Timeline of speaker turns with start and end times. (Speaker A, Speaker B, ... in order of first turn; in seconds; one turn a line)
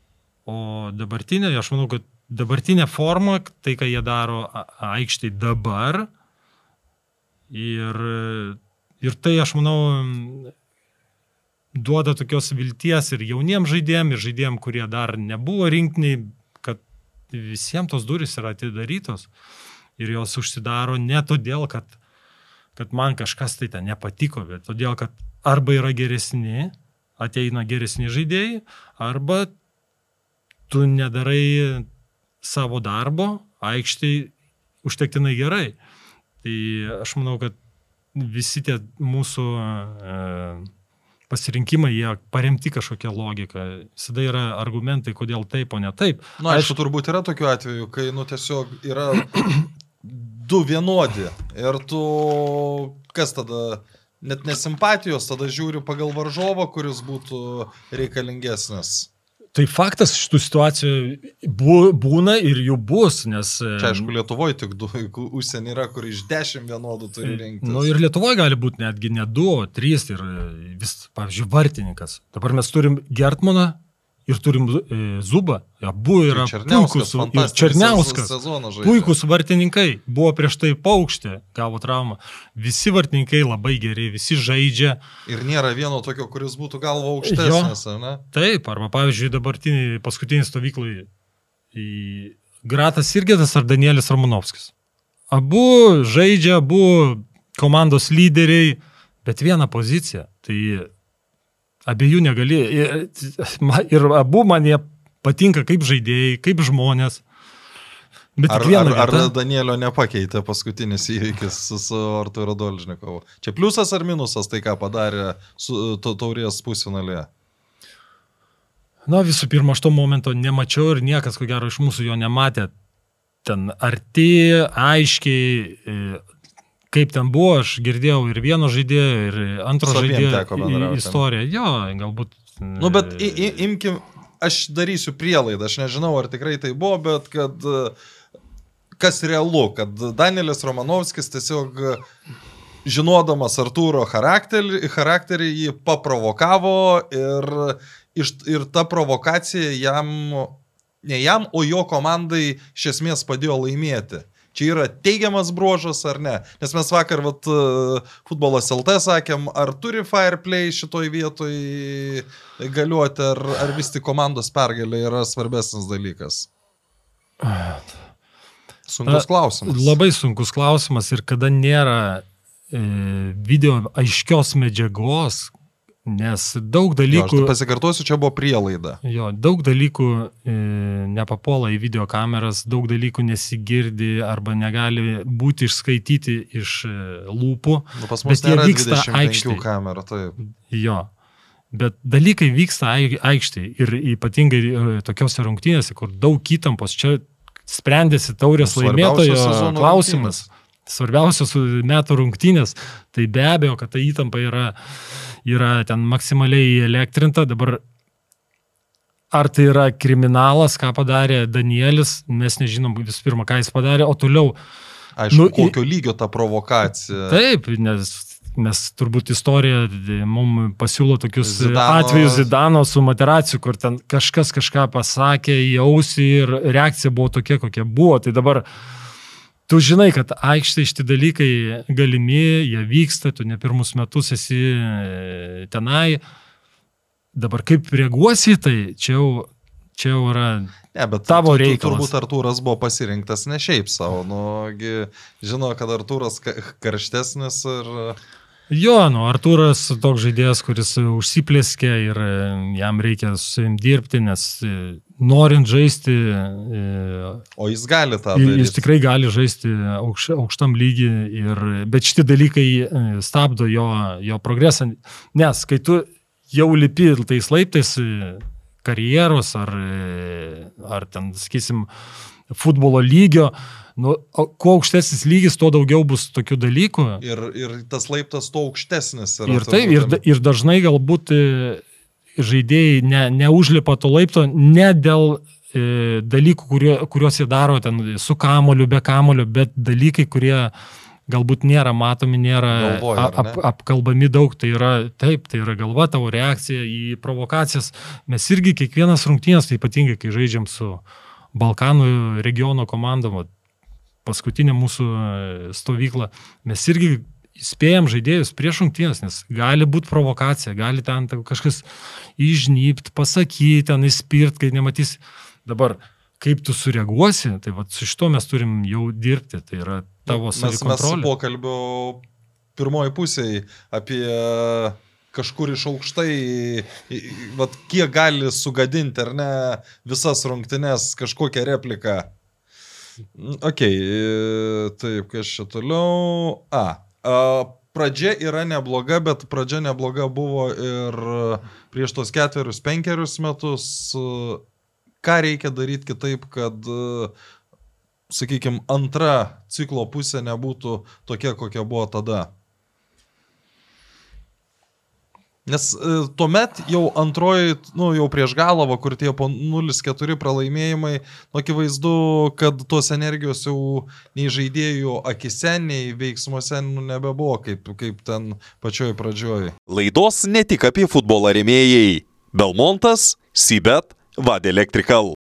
Speaker A: 0.5-6.1
Speaker A: 7.5-10.5
Speaker A: 11.7-19.3
Speaker A: 20.0-21.9
Speaker A: 22.8-29.5
Speaker A: 30.7-31.9
Speaker A: 32.4-34.3
Speaker A: 34.8-35.8
Speaker A: 36.4-37.5
Speaker A: 38.1-40.7
Speaker A: 41.3-46.8
Speaker B: 46.4-59.1
Speaker A: 59.5-64.1
Speaker B: 63.8-67.9
Speaker A: 67.2-85.0
Speaker B: 76.3-79.1
Speaker B: 85.3-88.2
Speaker A: 87.2-87.8
Speaker A: 88.3-91.1
Speaker A: 91.7-94.7
Speaker A: 95.3-100.9
Speaker A: 101.9-107.2
Speaker A: 108.4-109.3
Speaker B: 108.5-117.3
Speaker A: 119.1-122.7
Speaker A: 123.4-126.2
Speaker A: 126.9-133.6
Speaker B: 129.8-131.2
Speaker B: 132.8-137.9
Speaker B: 139.0-142.0
Speaker B: 142.8-166.5
Speaker A: 167.4-167.9
Speaker B: 168.9-170.0
Speaker A: 169.1-175.5
Speaker A: 176.1-177.5
Speaker B: 177.1-179.0
Speaker A: 179.0-189.6
Speaker B: 187.9-190.4
Speaker A: 190.7-191.1
Speaker A: 191.7-207.8
Speaker B: 198.6-200.4
Speaker A: 209.3-214.6
Speaker B: 215.2-217.4
Speaker A: 215.3-215.8
Speaker A: 217.3-228.7
Speaker B: 221.4-222.5
Speaker A: 229.7-236.2
Speaker A: 237.3-240.7
Speaker B: 240.9-248.2
Speaker A: 241.3-242.1
Speaker A: 248.7-257.4
Speaker B: 257.6-258.8
Speaker A: 258.3-271.9
Speaker A: 272.5-277.2
Speaker B: 277.2-280.2
Speaker A: 279.5-281.8
Speaker A: 282.4-290.7
Speaker A: 291.3-301.0
Speaker B: 292.7-293.6
Speaker A: 301.5-303.5
Speaker A: 304.2-311.8
Speaker A: 312.4-321.3
Speaker B: 320.3-322.2
Speaker B: 322.8-332.3
Speaker B: 333.3-344.6
Speaker B: 345.2-347.3
Speaker B: 348.3-352.5
Speaker B: 355.6-369.8
Speaker C: 369.9-375.4